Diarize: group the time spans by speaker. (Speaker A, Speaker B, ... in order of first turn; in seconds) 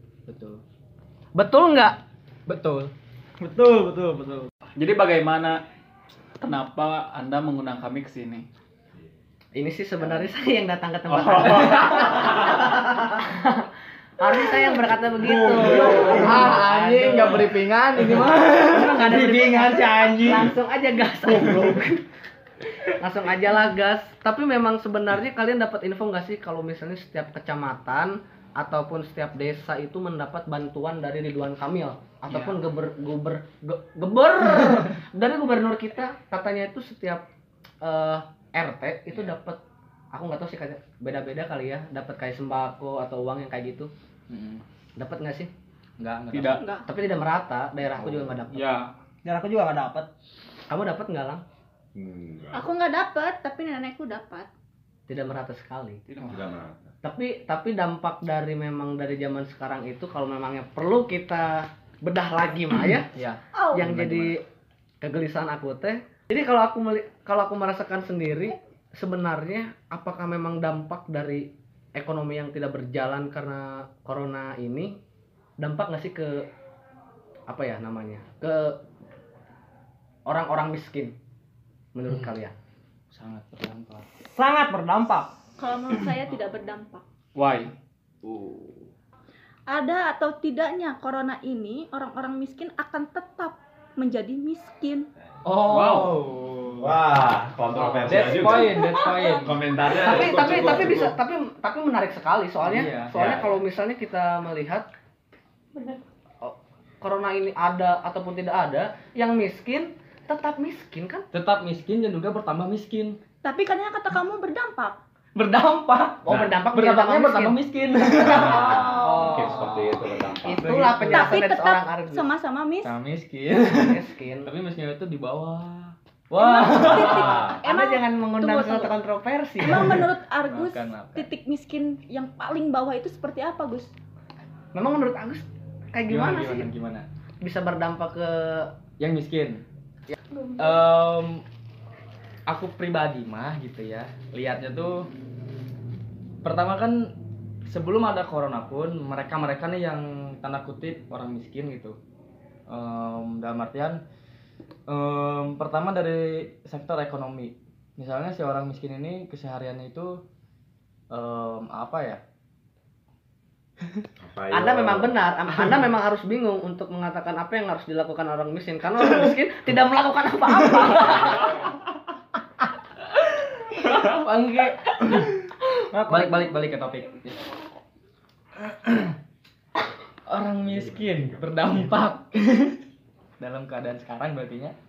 Speaker A: 0.3-0.6, 2.5-2.9, 16.1-20.1, 44.3-44.6, 46.0-46.6, 48.0-48.4, 63.1-64.3, 83.1-84.1, 95.4-96.9, 97.7-99.6, 102.6-103.1, 111.3-113.2, 115.3-119.7, 120.6-121.4, 122.8-127.5, 130.5-131.3, 136.1-137.1, 139.0-139.6, 140.6-141.4, 142.5-145.1, 146.4-147.1, 147.7-152.0, 152.7-154.0, 154.9-160.2, 161.1-162.2, 173.2-177.5, 178.6-179.2, 180.3-182.8, 183.4-184.7
Speaker B: 1.4-2.0, 9.5-13.7, 14.2-17.6, 18.4-22.0, 22.8-37.2, 37.8-39.6, 40.1-43.9, 45.0-45.5, 46.8-48.7, 50.7-51.4, 55.1-56.0, 57.0-63.1, 63.7-64.4, 65.0-75.0, 75.6-76.5, 77.5-78.8, 80.2-81.1, 81.9-82.5, 99.9-104.9, 105.8-111.3, 116.2-118.0, 119.0-119.7, 120.4-122.3, 123.7-124.5, 126.8-129.9, 134.7-136.7, 137.4-138.7, 164.5-171.5
Speaker C: 3.4-4.5, 15.2-16.5, 19.2-20.5, 21.4-21.8, 49.2-50.1, 84.2-85.3, 175.9-176.4
Speaker D: 4.7-5.6, 6.4-8.5, 11.1-12.2, 32.3-32.6, 46.3-46.6, 48.5-48.9, 56.1-56.5, 87.3-87.7, 95.6-96.3
Speaker E: 46.5-46.9, 52.5-54.5, 63.5-63.8, 85.6-87.0, 89.7-95.1, 98.3-99.4, 113.4-115.0, 118.4-119.4, 121.1-122.9, 126.4-128.9, 129.6-133.9, 140.3-140.8
Speaker F: 51.9-52.6, 56.3-56.8, 88.2-88.9, 96.8-101.1, 103.1-103.6, 116.3-116.6, 118.2-120.7, 126.7-127.6, 164.2-165.2, 180.7-181.4